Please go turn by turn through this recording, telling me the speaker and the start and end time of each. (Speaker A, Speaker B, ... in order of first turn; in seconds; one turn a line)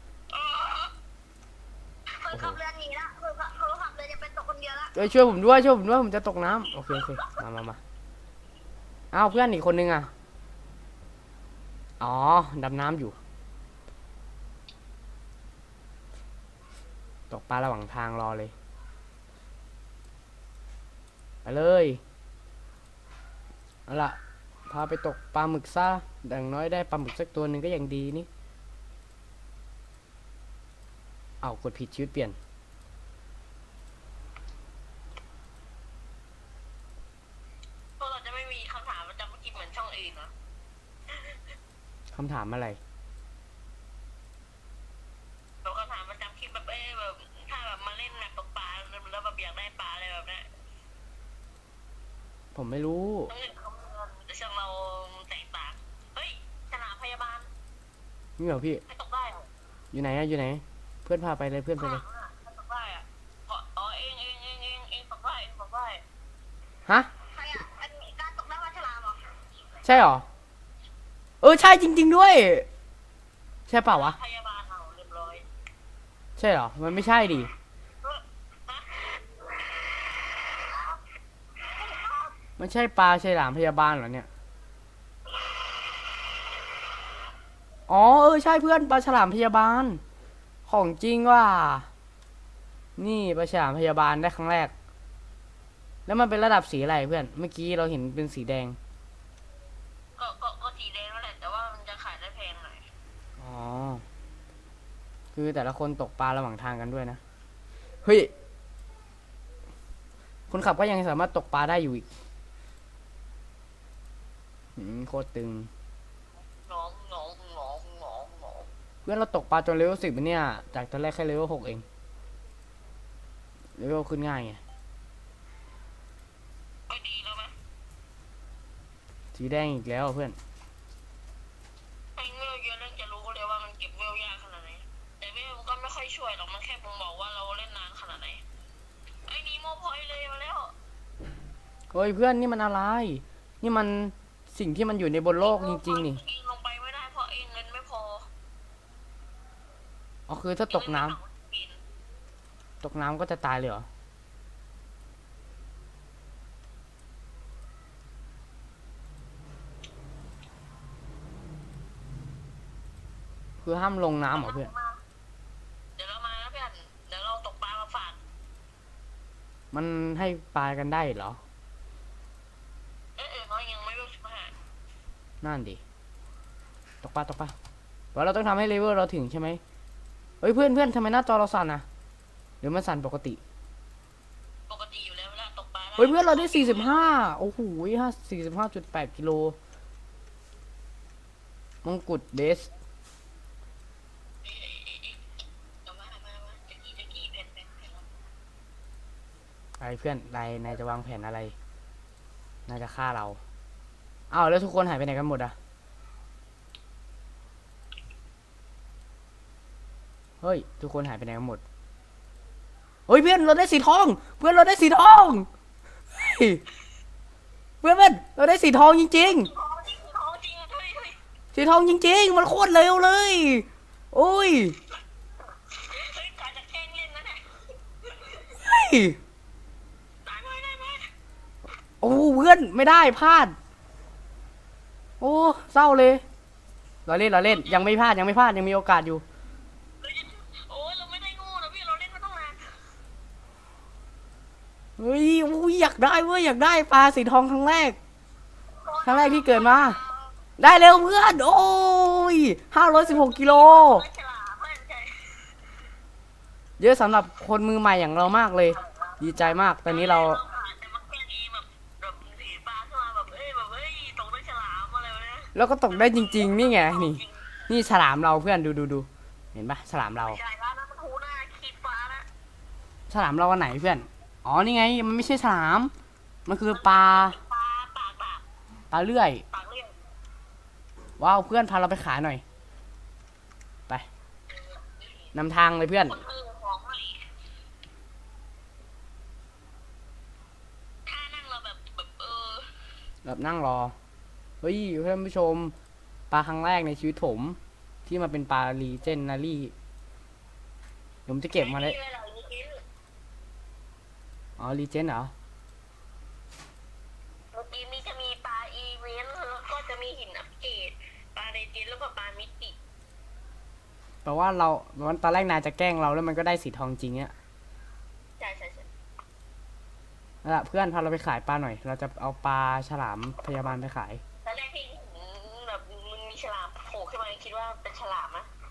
Speaker A: 0.3-0.9
Speaker B: 2.2-4.9
Speaker C: 2.3-2.6
Speaker C: 4.9-7.8
Speaker C: 9.1-10.1
Speaker C: 12.0-13.2
Speaker C: 17.3-18.5
Speaker C: 21.4-22.0
Speaker C: 23.9-24.2
Speaker C: 24.7-28.3
Speaker C: 31.4-32.4
Speaker A: 38.0-40.3
Speaker A: 41.1-41.4
Speaker C: 42.1-42.8
Speaker A: 45.6-50.5
Speaker C: 52.5-53.3
Speaker A: 53.3-57.5
Speaker C: 58.4-58.8
Speaker A: 58.9-59.5
Speaker C: 59.9-62.0
Speaker A: 61.8-66.0
Speaker B: 67.3-69.2
Speaker C: 69.8-70.2
Speaker C: 71.4-72.7
Speaker C: 73.7-74.2
Speaker A: 73.9-75.4
Speaker C: 76.4-77.5
Speaker A: 78.0-81.0
Speaker A: 81.7-82.3
Speaker C: 82.6-84.3
Speaker C: 87.9-90.0
Speaker C: 90.7-91.9
Speaker C: 93.0-94.7
Speaker C: 96.1-98.8
Speaker A: 100.2-102.9
Speaker C: 103.4-104.0
Speaker C: 105.3-107.2
Speaker C: 108.0-108.3
Speaker C: 110.5-112.1
Speaker C: 114.8-115.7
Speaker A: 116.7-118.7
Speaker C: 119.0-121.8
Speaker C: 123.8-124.6
Speaker A: 126.9-127.5
Speaker C: 129.3-130.4
Speaker A: 132.2-138.4
Speaker A: 139.3-140.7
Speaker C: 141.9-146.2
Speaker A: 145.4-148.3
Speaker C: 150.3-151.2
Speaker A: 150.7-151.8
Speaker C: 152.8-153.9
Speaker C: 163.6-164.7
Speaker A: 164.3-165.0
Speaker A: 165.9-168.2
Speaker C: 169.7-171.4
Speaker A: 173.2-174.5
Speaker C: 175.4-175.8
Speaker C: 177.0-177.5
Speaker C: 178.1-179.6
Speaker C: 180.4-181.8
Speaker C: 182.6-183.4
Speaker A: 184.7-187.1
Speaker C: 186.0-189.6
Speaker C: 191.8-192.7
Speaker A: 194.4-195.2
Speaker A: 195.8-198.1
Speaker C: 199.8-201.5
Speaker C: 202.7-203.4
Speaker C: 204.3-205.6
Speaker C: 210.4-211.6
Speaker C: 213.1-215.5
Speaker C: 216.1-216.6
Speaker C: 217.8-219.5
Speaker A: 219.2-221.2
Speaker C: 221.5-224.8
Speaker A: 225.7-228.5
Speaker C: 228.5-229.2
Speaker A: 230.2-231.1
Speaker C: 232.0-233.6
Speaker C: 235.2-236.2
Speaker C: 237.1-239.2
Speaker A: 237.5-237.9
Speaker A: 240.0-242.8
Speaker C: 245.0-248.0
Speaker A: 248.8-250.4
Speaker C: 249.0-250.0
Speaker C: 250.6-254.1
Speaker A: 253.0-255.6
Speaker C: 256.8-260.4
Speaker A: 258.8-259.3
Speaker A: 259.8-267.6
Speaker C: 265.5-270.4
Speaker A: 270.2-272.3
Speaker C: 273.1-275.9
Speaker C: 276.4-277.4
Speaker A: 276.7-278.4
Speaker C: 278.9-279.4
Speaker A: 279.5-280.0
Speaker C: 281.2-282.4
Speaker A: 284.5-285.3
Speaker C: 285.3-286.2
Speaker A: 286.0-287.3
Speaker A: 291.1-292.9
Speaker C: 293.2-293.9
Speaker C: 294.6-295.7
Speaker C: 296.3-299.7
Speaker C: 301.2-302.0
Speaker A: 301.5-302.8
Speaker C: 304.6-305.3
Speaker A: 307.5-312.8
Speaker C: 314.2-317.3
Speaker A: 318.4-318.9
Speaker C: 320.4-324.2
Speaker A: 324.4-328.5